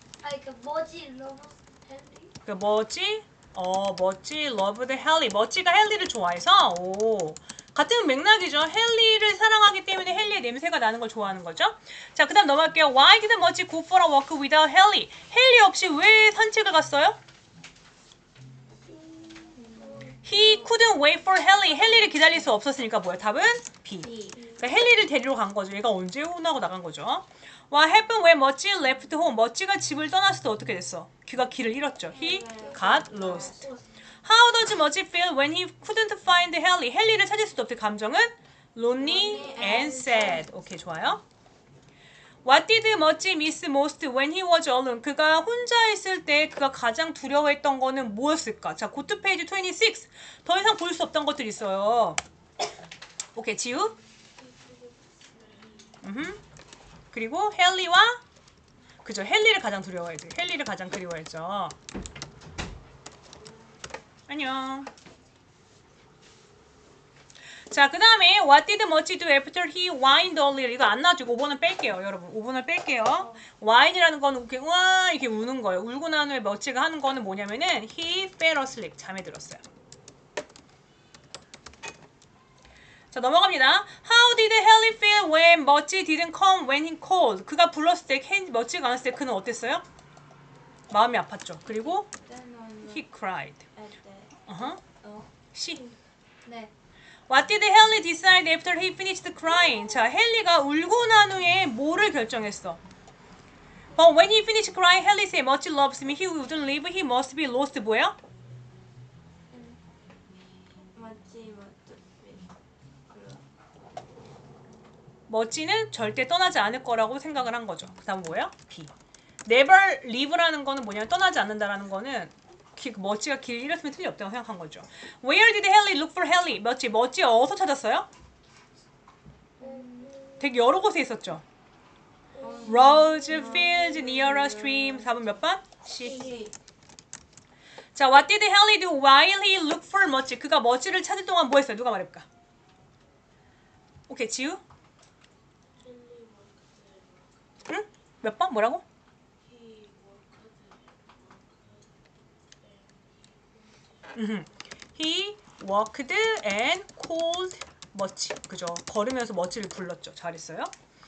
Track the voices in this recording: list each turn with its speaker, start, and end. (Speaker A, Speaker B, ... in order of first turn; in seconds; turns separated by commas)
Speaker A: 0.2-2.3, Speaker B: 2.5-17.2, Speaker A: 18.8-20.2, Speaker C: 19.5-20.7, Speaker B: 20.2-33.7, Speaker C: 21.6-22.5, Speaker C: 24.0-24.5, Speaker C: 32.1-33.6, Speaker A: 32.4-33.8, Speaker B: 34.2-41.2, Speaker C: 39.0-40.4, Speaker A: 39.1-40.4, Speaker B: 42.4-52.2, Speaker B: 53.3-53.9, Speaker C: 54.4-55.9, Speaker B: 56.0-56.4, Speaker B: 57.1-58.2, Speaker B: 59.0-61.7, Speaker B: 64.3-64.9, Speaker B: 67.7-79.6, Speaker B: 83.1-89.8, Speaker B: 90.9-92.1, Speaker C: 92.2-93.1, Speaker B: 92.9-93.6, Speaker C: 93.7-94.4, Speaker B: 94.5-94.8, Speaker C: 95.0-95.3, Speaker B: 95.5-95.8, Speaker C: 96.4-96.7, Speaker B: 97.3-102.8, Speaker B: 104.0-108.2, Speaker C: 109.5-109.8, Speaker C: 110.9-112.5, Speaker C: 113.1-113.4, Speaker B: 115.3-118.9, Speaker B: 119.5-128.1, Speaker A: 129.6-130.5, Speaker C: 129.6-130.1, Speaker B: 130.4-131.4, Speaker A: 132.3-133.6, Speaker C: 132.4-135.1, Speaker B: 132.7-136.3, Speaker C: 136.0-136.5, Speaker A: 136.0-136.4, Speaker B: 137.9-142.2, Speaker B: 144.1-144.6, Speaker C: 145.8-147.5, Speaker B: 147.7-148.8, Speaker C: 149.4-151.9, Speaker C: 152.6-152.9, Speaker B: 154.1-160.7